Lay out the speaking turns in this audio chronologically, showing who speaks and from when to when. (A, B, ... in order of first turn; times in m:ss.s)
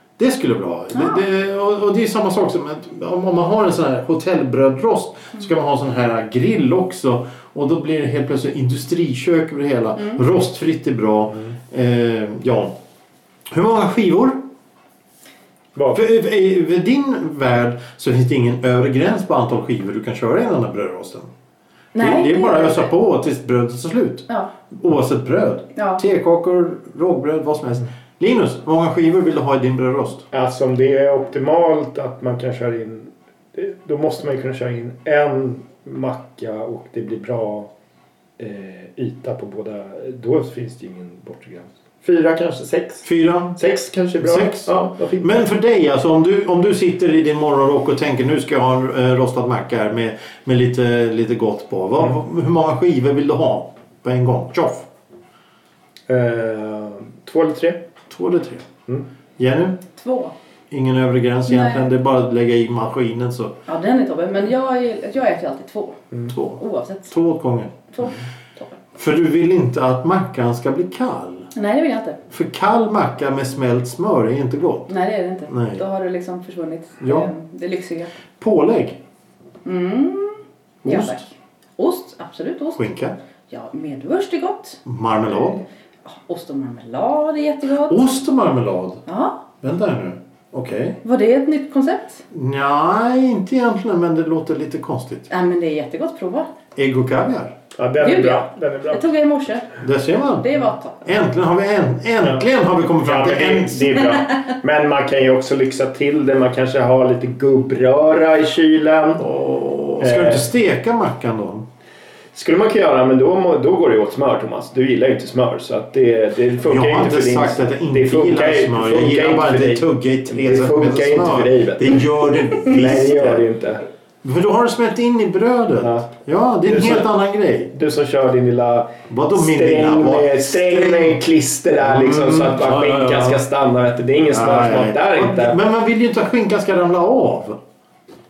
0:00.2-0:12.7 A
0:00.9-0:01.2 B
0:13.5-0:14.4 A
0:15.8-0:16.0 C
0:15.9-0:21.3 A
0:21.9-0:22.9 B
0:22.0-0:30.2 A
0:25.8-0:26.0 B
0:30.3-0:37.7 C
0:38.4-0:45.4 C
0:43.0-0:43.6 A
0:44.2-0:54.9 A
0:56.1-0:57.8 C
0:58.1-0:58.6 A
0:59.4-0:59.8 A
1:00.0-1:00.3 B
1:00.7-1:03.6 A
1:01.5-1:01.8 B
1:03.7-1:07.1 B
1:06.3-1:07.7 A
1:07.9-1:08.8 B
1:09.0-1:11.5 A
1:11.5-1:12.2 B
1:12.3-1:14.9 A
1:14.9-1:18.1 B
1:15.5-1:15.8 A
1:17.0-1:17.3 A
1:18.4-1:19.0 A
1:19.6-1:21.3 B
1:20.8-1:21.2 A
1:21.8-1:22.8 B
1:22.8-1:23.2 A
1:23.5-1:24.8 B
1:24.8-1:25.6 A
1:26.1-1:28.0 B
1:27.9-1:29.0 A
1:29.1-1:29.4 B
1:29.6-1:31.0 A
1:31.0-1:32.2 B
1:32.3-1:35.3 A
1:35.3-1:36.5 B
1:36.8-1:37.5 A
1:37.8-1:39.1 C
1:38.0-1:39.7 B
1:39.8-1:44.0 A
1:40.4-1:41.0 B
1:43.0-1:49.2 C
1:49.2-1:51.6 A
1:50.0-1:50.5 C
1:52.3-2:02.0 C
1:56.6-2:03.4 A
2:02.6-2:03.8 C
2:04.2-2:07.7 A
2:05.8-2:06.1 C
2:06.6-2:07.1 C
2:07.7-2:15.6 C
2:09.1-2:11.2 A
2:11.8-2:13.4 A
2:14.3-2:17.6 A